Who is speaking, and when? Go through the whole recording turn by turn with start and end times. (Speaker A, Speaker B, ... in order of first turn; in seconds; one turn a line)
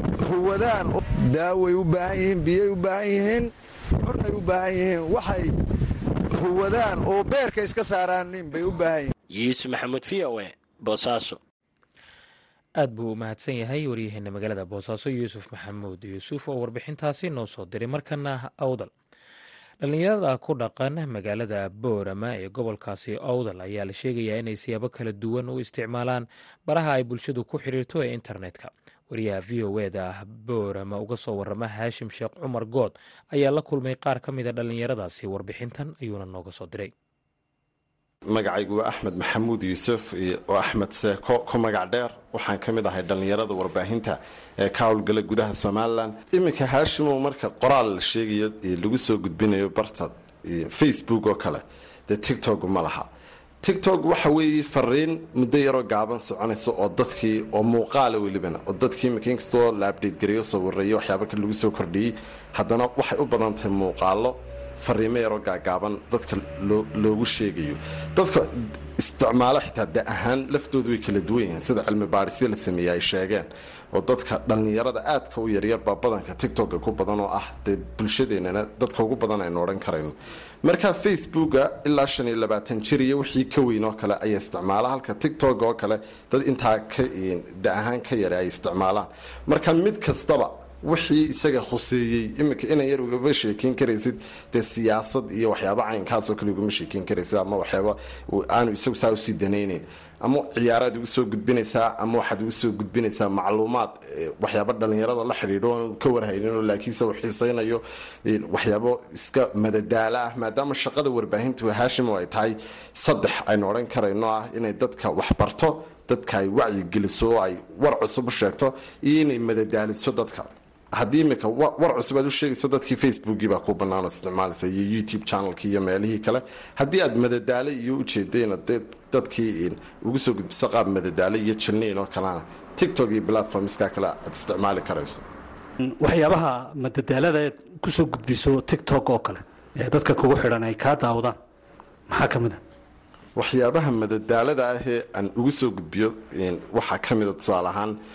Speaker A: 0.2-3.5
Speaker A: 4.0-5.5
Speaker A: 6.3-9.1
Speaker B: 9.3-11.4
Speaker C: 12.8-18.9
Speaker C: 19.8-36.9
Speaker D: 38.3-53.1
Speaker D: 53.6-135.2
Speaker E: 135.9-141.4
Speaker E: 142.1-142.6
Speaker D: 143.4-148.0